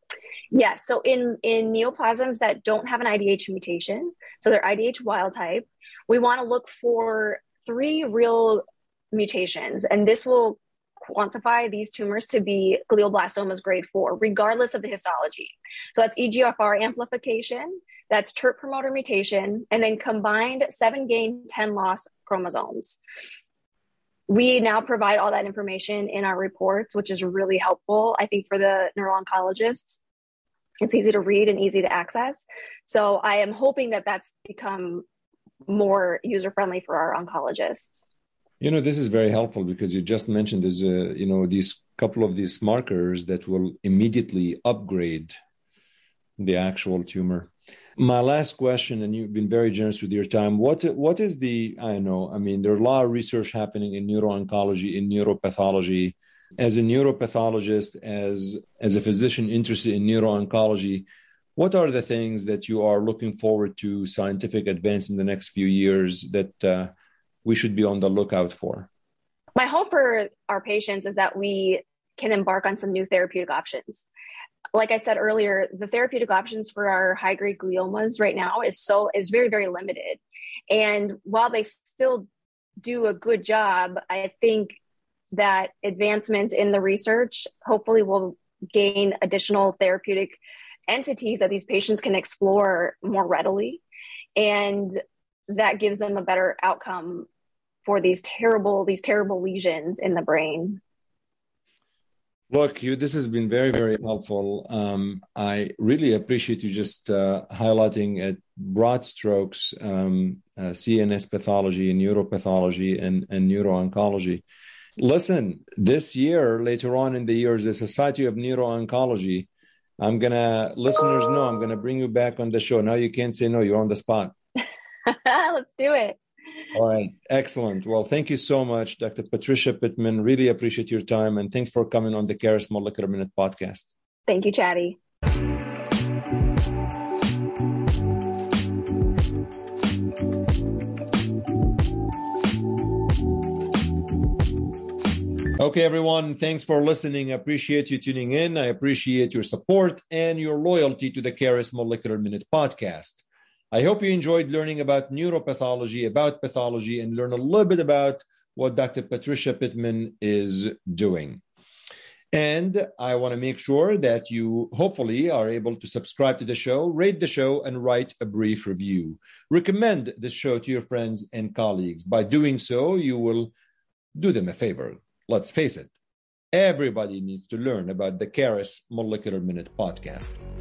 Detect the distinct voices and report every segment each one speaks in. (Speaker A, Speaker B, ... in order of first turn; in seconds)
Speaker A: 0.5-23.0, 24.3-30.0, 30.8-35.0, 35.7-38.1, 69.6-74.1, 74.7-82.3, 82.8-84.8, 85.3-93.8, 94.4-95.0, 95.5-97.3, 97.8-100.8, 125.1-126.2, 134.3-135.0
Speaker B: 38.6-45.4, 46.4-66.9, 67.5-68.9, 102.5-114.4, 115.0-119.5, 120.0-124.3, 126.7-133.9, 145.6-161.4, 162.3-173.5, 174.2-175.9, 176.5-180.4